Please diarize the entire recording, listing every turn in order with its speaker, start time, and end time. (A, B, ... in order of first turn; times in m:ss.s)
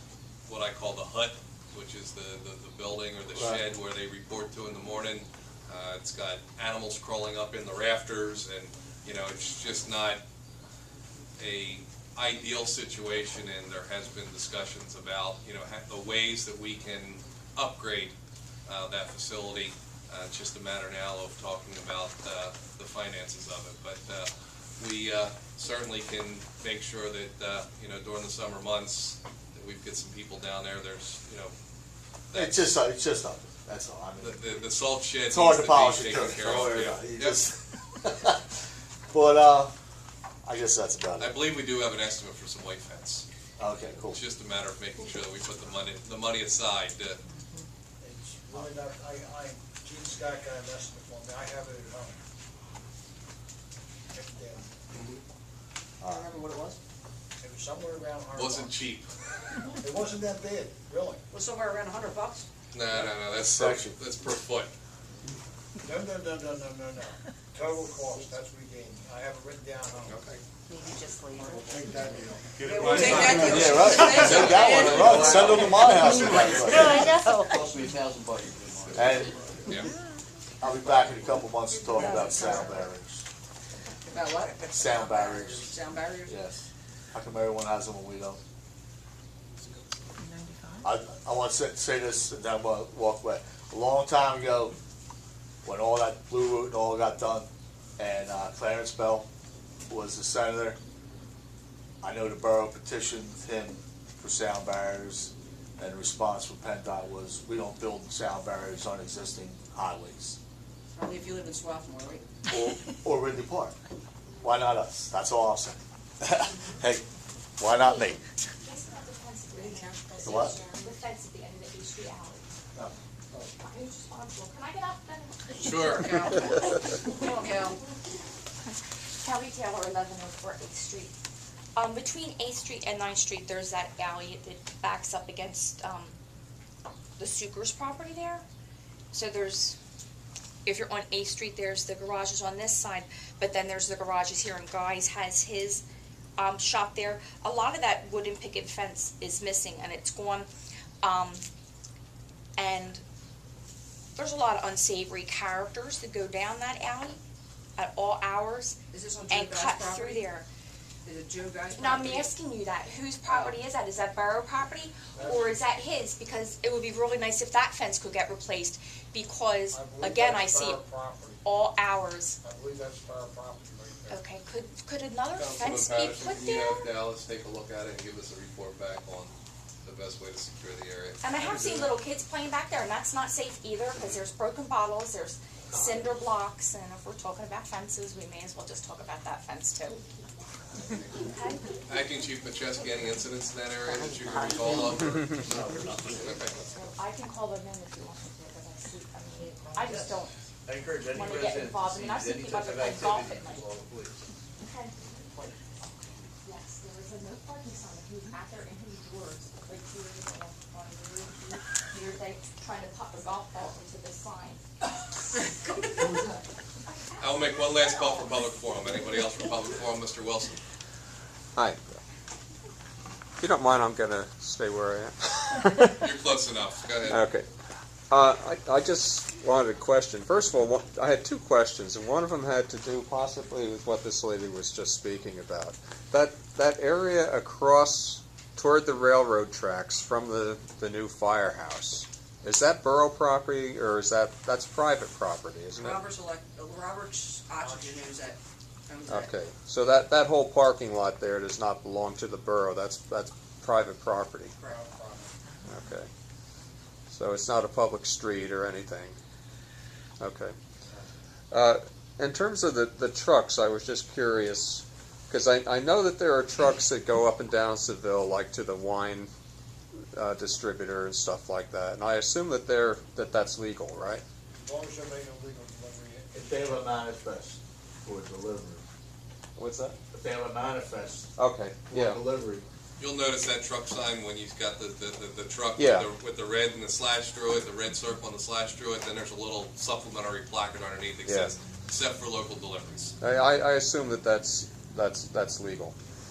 0:00.5-0:10.2 A
0:03.3-0:03.6 B
0:11.4-0:31.5 A
0:32.3-0:32.6 A
0:32.3-0:34.4 B
0:34.2-0:37.4 A
0:35.3-0:38.5 B
0:39.1-0:39.7 B
0:40.4-0:41.4 B
0:41.2-0:43.3 A
0:43.6-0:44.2 B
0:44.1-0:47.2 A
0:48.0-0:52.2 C
0:54.1-0:54.8 C
0:54.9-0:55.2 A
0:56.0-0:56.4 B
0:56.0-0:56.8 D
0:57.4-0:58.8 C
0:58.4-0:59.1 A
0:59.8-1:01.2 C
1:01.3-1:02.5 D
1:02.7-1:04.7 A
1:03.4-1:04.0 B
1:05.8-1:10.2 C
1:10.0-1:10.4 A
1:10.7-1:12.2 E
1:11.4-1:13.6 C
1:12.6-1:15.0 D
1:12.7-1:16.9 F
1:13.4-1:17.1 B
1:14.0-1:15.9 A
1:16.1-1:17.6 E
1:17.4-1:19.8 F
1:18.9-1:19.4 B
1:20.6-1:23.2 B
1:22.2-1:22.4 G
1:24.1-1:26.4 D
1:24.7-1:25.8 B
1:26.3-1:26.6 B
1:27.1-1:28.4 B
1:30.8-1:34.8 B
1:35.6-1:39.3 B
1:39.9-1:40.8 B
1:42.0-1:50.4 B
1:50.9-1:52.2 D
1:52.5-1:53.8 B
1:54.4-1:57.0 B
1:57.6-1:58.2 B
1:57.7-2:02.6 G
1:59.5-2:00.2 D
2:00.2-2:00.6 B
2:03.5-2:06.0 G
2:05.5-2:07.8 D
2:05.6-2:06.1 A
2:06.6-2:07.4 G
2:09.2-2:11.2 G
2:11.8-2:16.2 G
2:17.2-2:18.4 G
2:19.1-2:19.8 G
2:20.6-2:25.8 G
2:26.4-2:30.5 G
2:31.0-2:31.4 G
2:32.6-2:33.0 G
2:34.2-2:37.2 G
2:37.8-2:40.5 G
2:38.9-2:40.3 D
2:41.0-2:42.3 D
2:41.7-2:50.8 G
2:43.3-2:43.6 D
2:45.1-2:45.7 C
2:49.7-2:51.4 C
2:51.4-2:52.4 G
2:52.4-2:54.2 C
2:54.1-2:56.9 G
2:55.4-3:01.8 A
3:01.2-3:10.0 G
3:05.7-3:06.1 B
3:11.2-3:11.8 G
3:11.9-3:16.8 A
3:14.3-3:14.7 E
3:15.5-3:16.2 B
3:15.7-3:16.1 E
3:16.7-3:20.3 G
3:19.8-3:24.3 F
3:21.0-3:23.7 G
3:24.6-3:25.0 G
3:26.4-3:38.4 G
3:37.2-3:40.6 A
3:43.4-3:46.1 H
3:46.0-3:47.2 A
3:47.1-3:47.5 H
3:48.1-4:06.0 H
4:05.8-4:09.3 D
4:07.6-4:08.2 C
4:09.1-4:14.5 H
4:14.6-4:15.4 C
4:15.6-4:16.1 H
4:17.1-4:19.2 H
4:20.2-4:20.6 H
4:21.5-4:29.3 H
4:30.2-4:34.2 H
4:34.5-4:36.8 C
4:36.4-4:38.8 B
4:39.6-4:40.0 H
4:40.1-4:41.3 B
4:41.4-4:42.2 H
4:41.9-4:42.7 B
4:43.0-4:53.2 A
4:45.8-4:46.1 H
4:51.2-4:51.5 H
4:53.2-4:56.0 H